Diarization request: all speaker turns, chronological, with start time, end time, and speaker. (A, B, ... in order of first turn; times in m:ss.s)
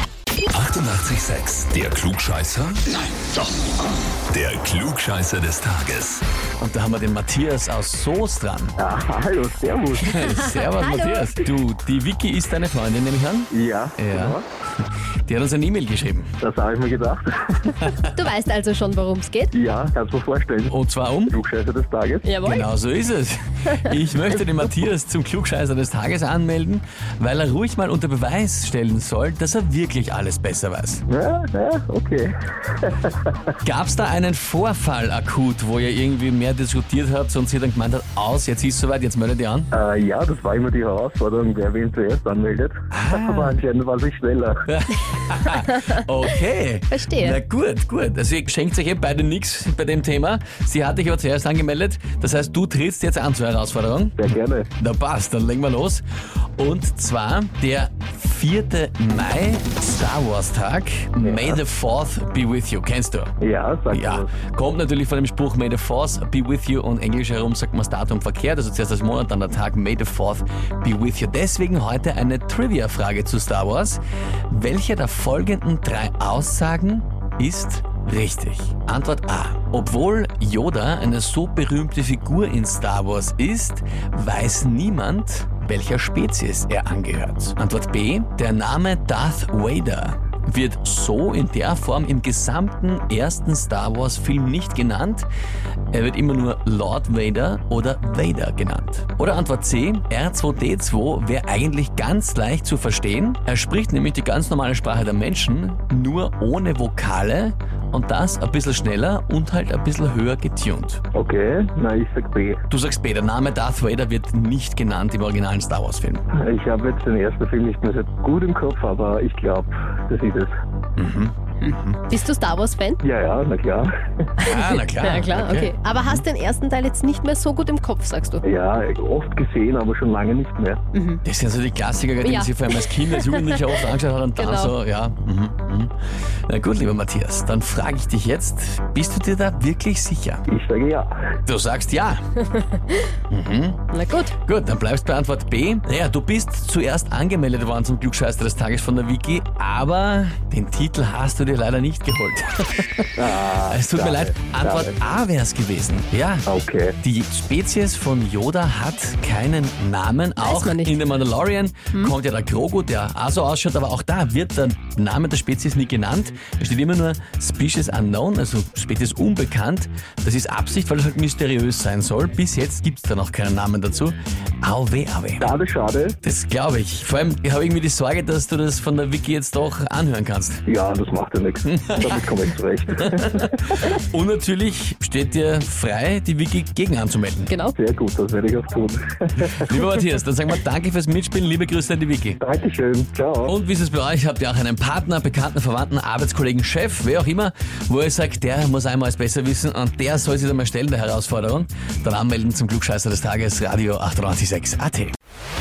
0:00.5-0:02.8 A
0:04.3-0:06.2 A
0:06.6-0:08.8 B
0:08.8-0:10.2 C
0:10.0-0:14.4 B
0:10.2-0:11.4 D
0:13.5-0:14.4 C
0:15.3-0:16.3 B
0:16.4-0:17.9 C
0:18.1-0:19.5 D
0:19.5-0:20.8 C
0:20.7-0:21.4 B
0:21.3-0:22.3 C
0:22.2-0:22.7 D
0:22.4-0:31.0 B
0:31.1-0:33.4 C
0:33.6-0:39.7 B
0:39.7-0:44.6 C
0:42.9-0:43.6 B
0:44.7-0:56.0 B
0:46.9-0:47.4 D
0:54.2-0:54.7 C
0:56.6-1:03.3 B
1:01.2-1:01.6 C
1:03.4-1:04.3 C
1:03.9-1:35.3 B
1:35.9-1:51.0 B
1:51.1-1:52.6 C
1:52.7-1:56.2 B
1:56.3-2:00.5 C
2:01.0-2:02.0 B
2:02.1-2:03.0 D
2:03.0-2:03.9 C
2:04.4-2:06.2 B
2:04.4-2:08.4 D
2:08.4-2:10.8 C
2:10.9-2:11.2 D
2:11.2-2:15.9 B
2:12.2-2:13.8 D
2:14.4-2:14.7 D
2:16.5-2:20.4 B
2:20.5-2:21.1 C
2:21.4-2:22.3 B
2:23.3-2:36.5 B
2:23.9-2:24.3 D
2:33.2-2:35.0 C
2:36.5-2:37.0 C
2:37.0-2:55.5 B
2:40.4-2:40.9 D
2:55.4-2:56.2 C
2:56.2-3:00.6 B
3:00.7-3:03.5 C
3:01.6-3:02.2 B
3:03.0-3:07.5 B
3:07.5-3:07.7 D
3:07.7-3:09.7 C
3:09.4-3:12.4 B
3:12.4-3:13.6 C
3:13.4-3:25.1 B